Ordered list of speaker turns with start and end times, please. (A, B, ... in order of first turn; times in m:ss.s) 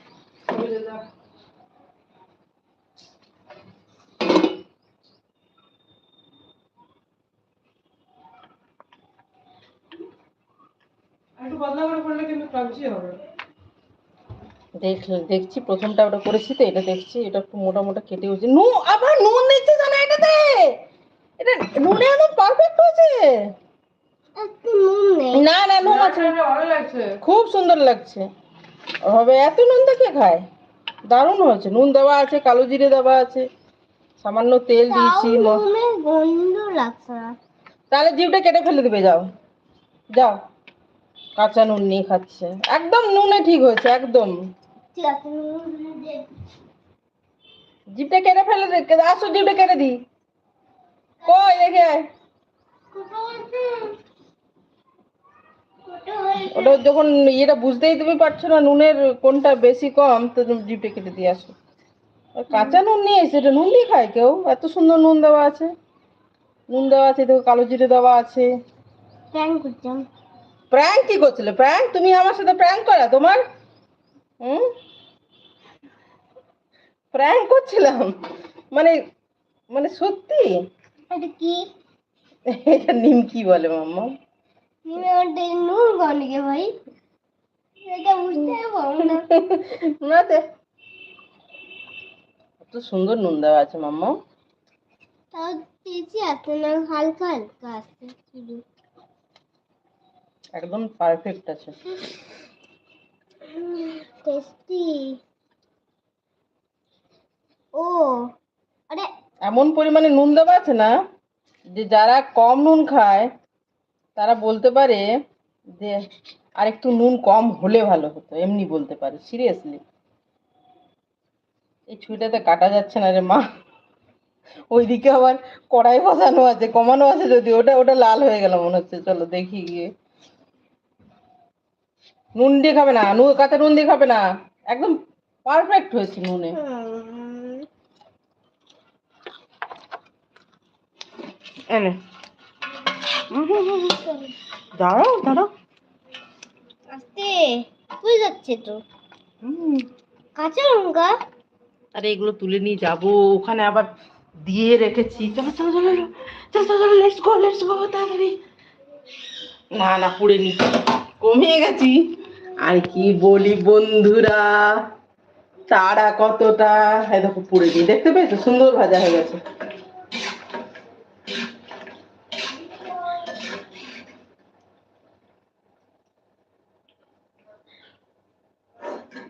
0:00.5-0:01.0 A
0:11.4-0:13.2 A
0:14.8-0:20.8 B
0:21.4-0:23.3 B
0:24.4-0:25.4 C
0:25.3-0:26.6 B
0:26.0-0:27.1 A
0:27.1-0:28.3 B
0:29.1-0:30.4 B
0:31.1-0:33.5 B
0:34.2-0:35.6 B
0:34.9-0:37.3 C
0:37.9-0:39.3 B
0:41.4-0:44.3 B
0:44.9-0:46.3 C
0:48.0-0:50.0 B
0:51.2-0:51.9 C
0:51.2-0:52.0 B
0:52.9-0:54.0 C
0:55.9-0:56.8 C
0:56.5-1:01.6 B
1:02.4-1:05.7 B
1:02.5-1:02.8 C
1:06.7-1:08.5 B
1:09.3-1:10.1 C
1:10.7-1:13.4 B
1:14.4-1:14.7 B
1:17.1-1:18.1 B
1:19.7-1:20.5 B
1:21.1-1:21.6 C
1:22.5-1:24.1 B
1:24.9-1:26.7 C
1:27.9-1:29.3 C
1:29.1-1:30.4 B
1:32.6-1:34.1 B
1:35.3-1:38.6 C
1:40.6-1:41.8 B
1:43.5-1:45.2 C
1:47.8-1:48.3 C
1:49.5-1:50.9 B
1:51.8-1:53.3 B
1:54.2-1:55.0 B
1:56.6-1:59.8 B
2:01.9-2:03.4 B
2:04.7-2:09.9 B
2:12.4-2:16.6 B
2:16.5-2:17.7 C
2:21.7-2:22.0 B
2:23.3-2:24.0 B
2:24.8-2:25.5 B
2:26.9-2:28.8 C
2:29.4-2:29.9 B
2:30.4-2:31.1 C
2:32.0-2:33.9 B
2:34.4-2:38.3 B
2:39.8-2:42.0 B
2:42.6-2:44.8 B
2:45.7-2:49.4 B